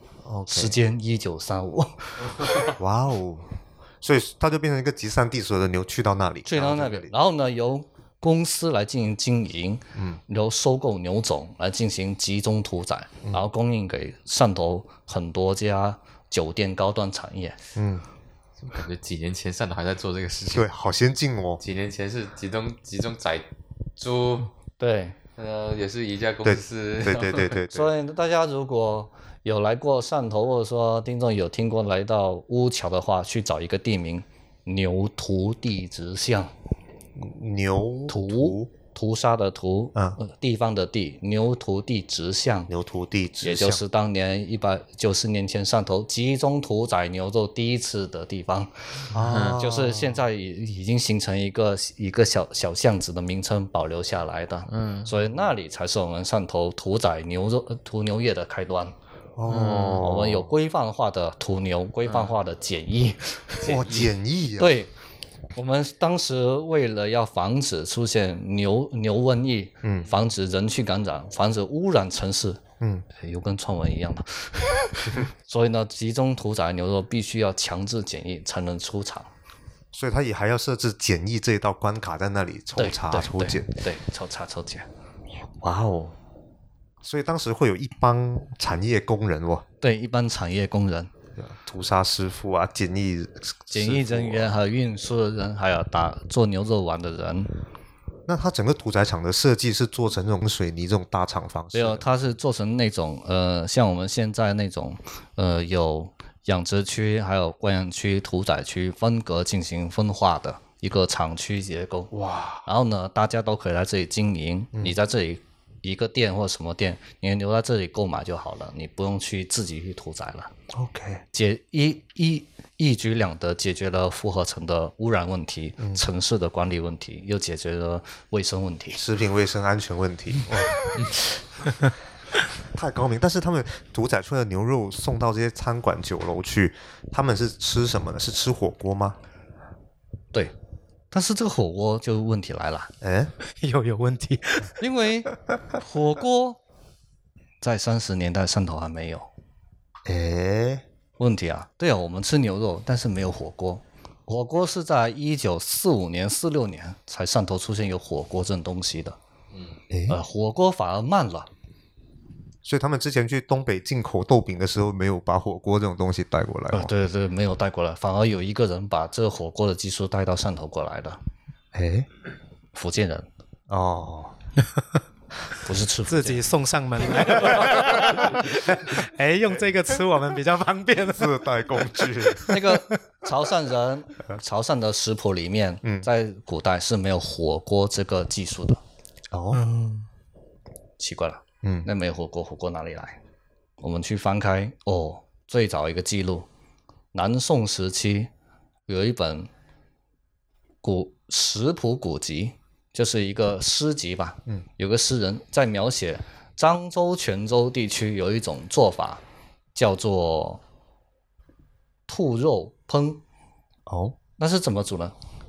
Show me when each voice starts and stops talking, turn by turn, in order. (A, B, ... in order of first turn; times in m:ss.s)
0:00.2-0:00.8 A
0:00.5-0:02.5 B
0:02.7-0:07.1 A
0:06.4-0:17.6 B
0:09.9-0:10.2 A
0:17.8-0:18.0 A
0:18.6-0:20.7 C
0:20.5-0:21.6 A
0:21.6-0:24.5 C
0:24.8-0:25.2 B
0:25.4-0:27.6 C
0:26.4-0:27.9 A
0:27.7-0:36.5 B
0:37.2-0:38.7 A
0:38.1-0:42.7 B
0:42.7-0:43.8 A
0:43.4-0:58.9 B
0:49.1-0:50.2 A
0:49.2-0:49.6 C
0:54.7-0:55.1 C
0:59.4-1:00.5 A
0:59.5-1:00.0 C
0:59.9-1:03.7 B
1:02.1-1:02.3 C
1:03.6-1:04.1 C
1:03.6-1:04.8 A
1:04.6-1:04.9 B
1:05.5-1:12.6 B
1:09.8-1:10.1 A
1:12.8-1:13.0 A
1:13.2-1:19.3 B
1:19.9-1:23.7 A
1:22.8-1:24.9 B
1:25.6-1:26.2 A
1:27.0-1:29.6 A
1:29.8-1:31.1 B
1:31.4-1:34.5 A
1:33.7-1:37.5 B
1:38.3-1:42.0 A
1:41.7-1:52.1 B
1:52.1-1:52.6 A
1:52.6-2:00.5 B
2:00.7-2:01.2 A
2:01.3-2:09.0 B
2:05.8-2:06.0 A
2:08.9-2:11.4 A
2:12.5-2:19.2 A
2:21.1-2:22.9 B
2:23.0-2:23.3 A
2:23.6-2:24.7 D
2:24.8-2:26.6 B
2:27.6-2:29.3 B
2:30.0-2:30.8 A
2:31.2-2:39.2 B
2:39.5-2:39.8 C
2:39.9-2:40.2 A
2:40.1-2:41.5 B
2:42.6-2:46.9 A
2:46.7-2:51.2 B
2:51.7-2:52.1 A
2:52.7-2:53.3 B
2:53.7-2:54.3 A
2:55.6-2:56.5 B
2:56.1-3:02.9 D
2:57.7-2:58.3 A
3:01.1-3:02.6 A
3:02.5-3:08.8 B
3:05.8-3:06.1 A
3:09.3-3:09.6 A
3:09.5-3:10.0 D
3:11.0-3:13.2 B
3:11.6-3:11.9 A
3:13.8-3:16.5 B
3:17.1-3:18.3 B
3:18.9-3:19.5 B
3:20.8-3:29.2 B
3:29.7-3:30.6 B
3:32.1-3:33.2 B
3:33.9-3:34.2 A
3:34.4-3:35.1 B